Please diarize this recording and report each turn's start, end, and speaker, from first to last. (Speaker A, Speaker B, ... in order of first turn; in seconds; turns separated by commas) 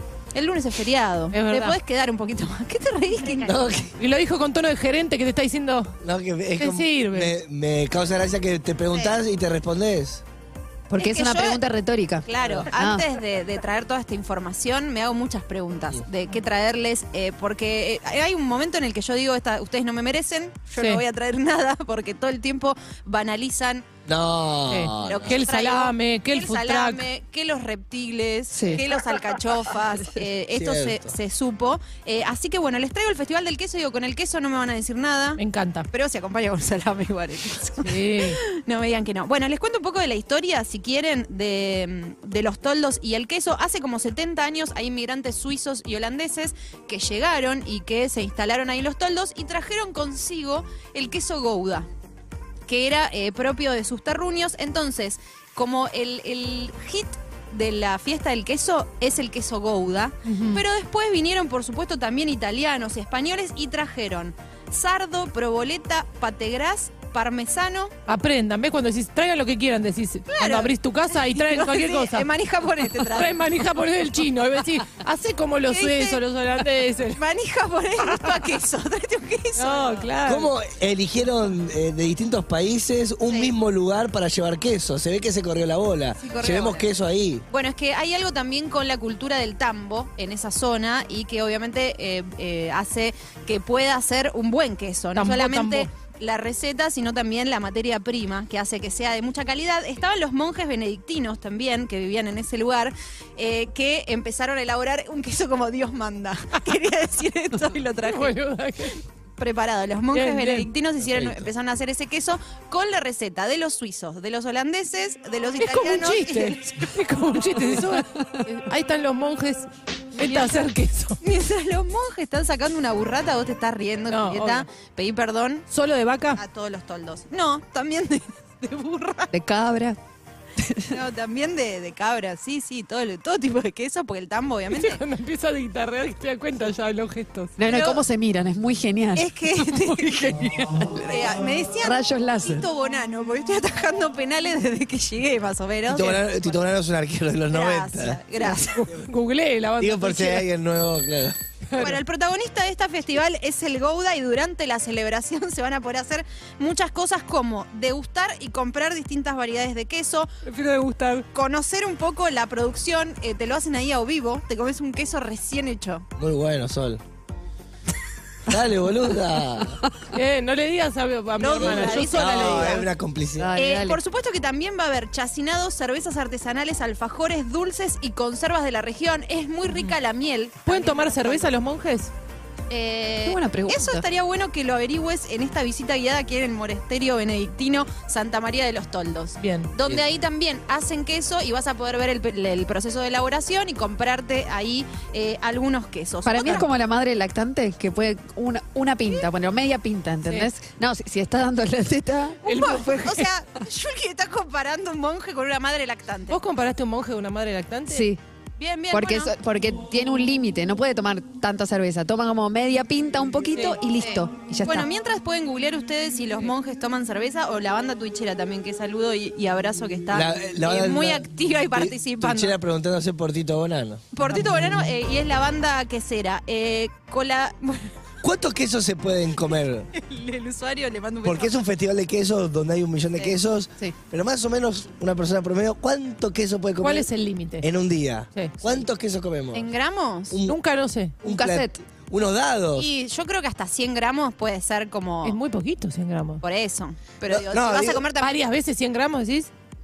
Speaker A: 0.3-3.9, Speaker B: 1.3-1.8, Speaker C: 3.4-3.9, Speaker B: 4.0-5.9, Speaker C: 6.0-10.2, Speaker B: 6.6-7.4, Speaker A: 8.9-9.2, Speaker D: 10.9-13.0, Speaker A: 11.0-11.6, Speaker A: 12.2-23.8, Speaker C: 12.4-12.7, Speaker C: 24.1-25.4, Speaker B: 24.7-27.1, Speaker A: 25.0-35.4, Speaker D: 28.5-28.8, Speaker C: 30.5-31.1, Speaker B: 35.4-35.9, Speaker A: 35.9-51.9, Speaker B: 37.8-38.4, Speaker A: 52.6-67.9, Speaker B: 60.2-60.6, Speaker B: 68.0-72.3, Speaker A: 70.3-73.3, Speaker B: 72.8-77.2, Speaker A: 75.7-76.2, Speaker A: 77.1-80.1, Speaker B: 79.6-80.5, Speaker C: 80.2-87.4, Speaker A: 83.3-83.5, Speaker A: 86.2-86.9, Speaker A: 87.5-108.3, Speaker B: 95.2-95.9, Speaker B: 108.0-109.0, Speaker A: 109.4-116.9, Speaker B: 110.1-110.7, Speaker C: 111.0-111.5, Speaker B: 115.6-121.2, Speaker A: 120.2-120.5, Speaker A: 121.2-125.7, Speaker B: 124.1-124.7, Speaker B: 125.7-126.4, Speaker A: 126.3-129.3, Speaker D: 129.3-130.0, Speaker A: 130.9-135.0, Speaker B: 134.7-137.6, Speaker D: 137.6-140.0, Speaker A: 137.7-138.0, Speaker A: 139.1-140.5, Speaker D: 140.6-141.3, Speaker A: 141.1-146.5, Speaker D: 141.8-142.6, Speaker C: 145.9-148.2, Speaker A: 147.5-148.9, Speaker B: 148.5-150.4, Speaker C: 149.8-151.4, Speaker B: 151.7-152.0, Speaker A: 151.8-160.3, Speaker B: 160.4-161.2, Speaker A: 161.3-166.1, Speaker C: 166.2-167.0, Speaker C: 168.5-169.8, Speaker B: 170.1-172.9, Speaker A: 171.4-172.8, Speaker C: 171.6-173.5, Speaker D: 173.3-174.0, Speaker A: 173.6-181.5, Speaker B: 179.6-179.9, Speaker B: 180.7-182.1, Speaker A: 182.7-196.7, Speaker D: 183.2-184.0, Speaker B: 189.4-189.7, Speaker D: 196.2-202.4, Speaker B: 200.2-200.5, Speaker A: 202.4-206.4, Speaker B: 202.4-203.3, Speaker B: 206.3-208.1, Speaker D: 207.9-208.2, Speaker A: 208.6-209.3, Speaker D: 208.9-214.9, Speaker B: 213.5-213.8, Speaker A: 214.0-222.6, Speaker C: 220.1-224.0, Speaker A: 224.1-227.9, Speaker C: 228.2-229.9, Speaker A: 229.9-231.6, Speaker C: 231.2-237.1, Speaker B: 236.8-237.7, Speaker C: 237.6-239.7, Speaker B: 238.3-238.8, Speaker A: 239.5-240.4, Speaker C: 240.3-240.6, Speaker B: 240.4-241.2, Speaker C: 241.2-242.9, Speaker D: 241.2-241.8, Speaker A: 242.7-245.4, Speaker B: 245.2-246.4, Speaker A: 246.4-248.3, Speaker C: 247.3-248.0, Speaker B: 248.2-249.5